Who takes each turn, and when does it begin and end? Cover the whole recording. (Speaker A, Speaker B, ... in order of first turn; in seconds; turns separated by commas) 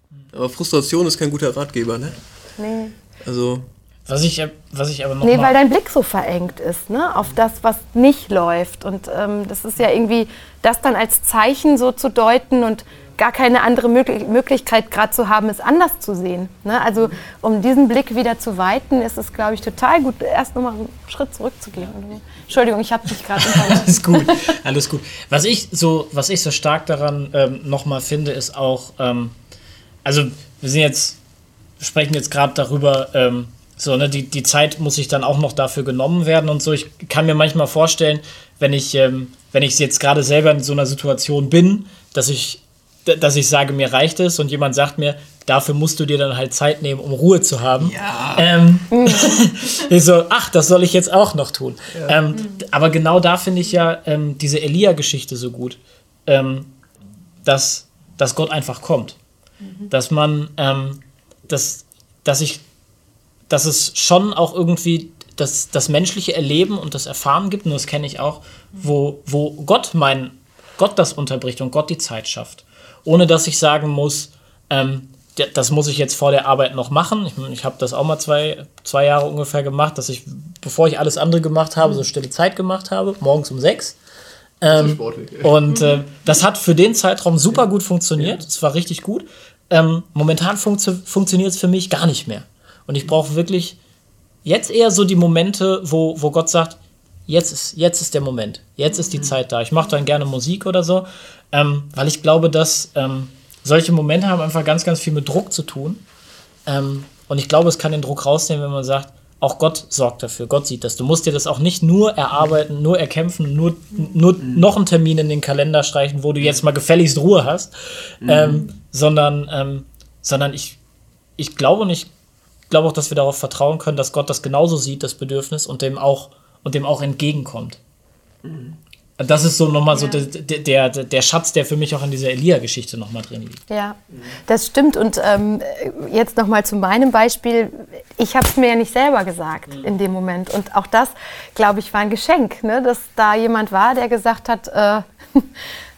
Speaker A: 0.3-2.2, Speaker B: 2.6-2.9, Speaker A: 3.2-3.7, Speaker C: 4.1-5.5, Speaker B: 5.2-24.5, Speaker C: 23.4-29.4, Speaker C: 30.1-31.2, Speaker C: 31.8-56.7, Speaker A: 47.8-48.5, Speaker B: 48.9-49.4, Speaker C: 57.5-59.2, Speaker C: 59.9-62.6, Speaker C: 63.5-84.0, Speaker C: 84.6-93.8, Speaker A: 84.7-85.6, Speaker C: 94.5-106.0, Speaker C: 106.7-120.8, Speaker A: 118.2-118.7, Speaker C: 121.4-122.1, Speaker C: 122.7-127.8, Speaker A: 128.4-128.8, Speaker C: 129.2-133.6, Speaker B: 129.9-130.2, Speaker B: 133.7-145.5